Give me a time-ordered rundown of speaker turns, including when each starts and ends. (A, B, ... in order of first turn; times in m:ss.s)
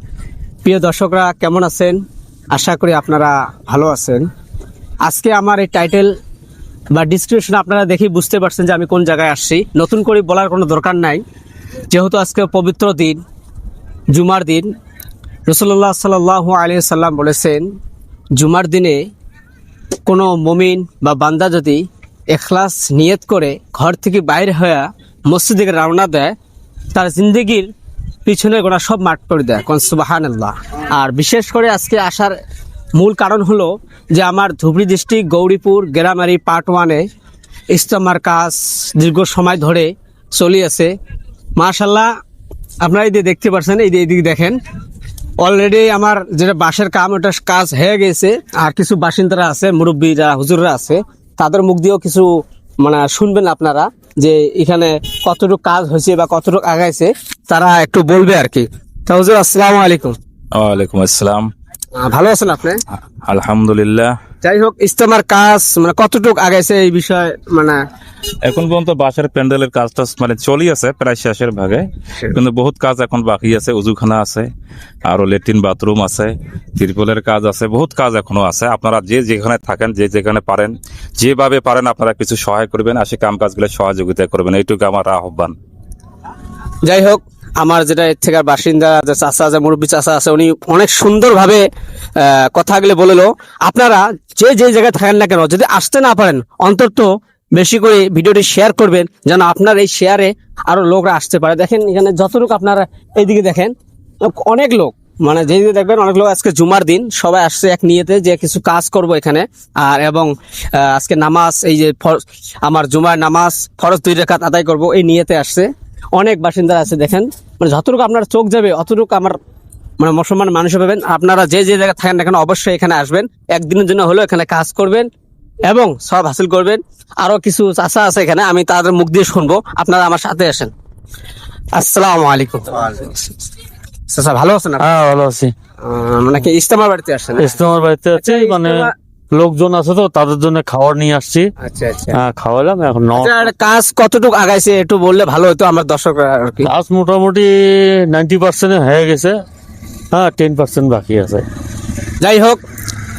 0:00.6-0:02.0 A
0:02.5-0:04.2 A
0:05.0-0:06.1 A
0:06.9-0:11.2 A
0:11.9-0:13.2 A
0:14.1-0:14.7 A
0:15.5-0:17.6 A
0:18.4-0:19.1 A
0:20.1-0:26.3 A
0:26.9-0:27.7 A
0:28.2-0:32.4 A
0:33.0-0:37.0 A
0:37.7-0:40.9 A
0:41.6-0:42.1 A
0:42.8-0:44.6 A
0:45.4-0:52.3 A
0:52.8-1:00.2 A
1:00.5-1:01.5 B
1:02.0-1:02.8 A
1:03.3-1:04.1 B
1:04.4-1:07.8 A
1:08.4-1:14.5 B
1:15.1-1:25.5 B
1:26.8-1:31.6 A
1:32.2-1:43.7 A
1:44.3-1:59.3 A
2:00.0-2:05.1 A
2:05.7-2:10.7 A
2:11.8-2:13.4 A
2:14.1-2:14.8 A
2:14.8-2:15.5 C
2:15.8-2:17.6 A
2:17.4-2:21.5 C
2:18.2-2:18.9 A
2:21.6-2:22.2 A
2:22.1-2:23.4 C
2:23.2-2:26.7 A
2:26.6-2:29.3 C
2:30.1-2:31.4 C
2:32.2-2:32.6 A